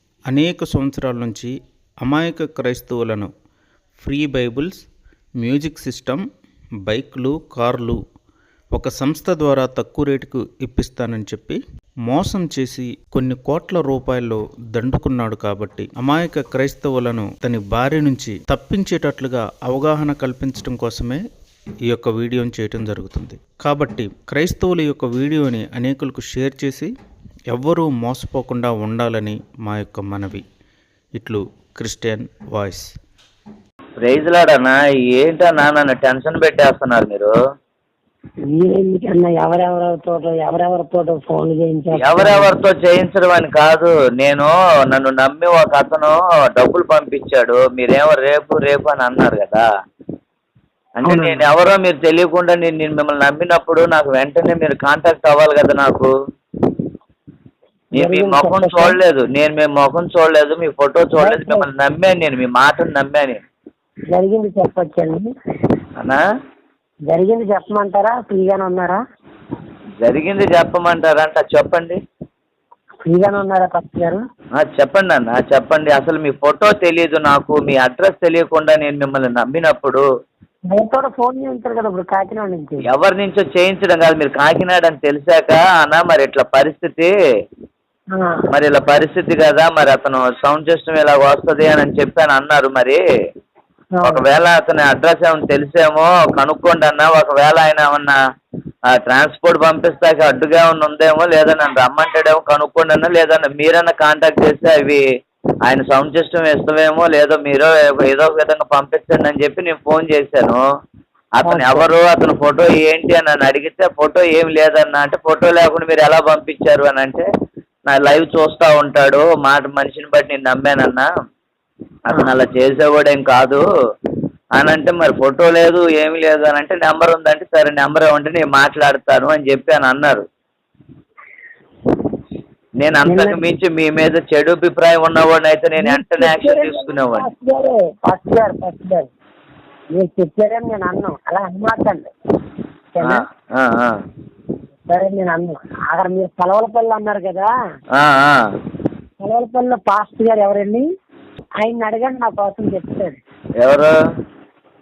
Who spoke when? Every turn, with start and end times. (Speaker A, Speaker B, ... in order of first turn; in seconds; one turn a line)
Speaker A: 0.3-3.3
Speaker A: 4.0-4.9
Speaker A: 5.4-6.2
Speaker A: 6.9-8.0
Speaker A: 8.7-21.2
Speaker A: 21.9-26.9
Speaker A: 27.5-30.4
Speaker A: 31.1-32.9
Speaker B: 34.0-37.3
Speaker C: 38.5-42.5
Speaker B: 41.9-49.6
Speaker B: 51.0-56.1
Speaker C: 51.1-51.4
Speaker B: 57.9-63.4
Speaker C: 58.0-59.0
Speaker C: 61.2-61.7
Speaker C: 64.1-65.3
Speaker C: 67.1-69.0
Speaker B: 70.0-72.0
Speaker C: 73.1-74.2
Speaker B: 74.6-80.0
Speaker C: 80.7-82.8
Speaker B: 82.9-87.1
Speaker C: 88.2-88.5
Speaker B: 88.5-93.0
Speaker C: 94.0-94.2
Speaker B: 94.0-98.2
Speaker B: 98.9-105.0
Speaker B: 105.7-110.6
Speaker B: 111.4-117.2
Speaker C: 111.5-111.8
Speaker B: 117.9-121.1
Speaker B: 122.1-123.6
Speaker B: 124.6-130.2
Speaker B: 132.8-137.3
Speaker C: 133.1-133.4
Speaker C: 135.8-139.1
Speaker C: 139.9-142.1
Speaker C: 142.9-143.2
Speaker B: 143.0-144.0
Speaker C: 144.9-147.5
Speaker B: 148.0-148.4
Speaker C: 149.2-150.8
Speaker C: 151.6-153.2
Speaker B: 153.6-153.9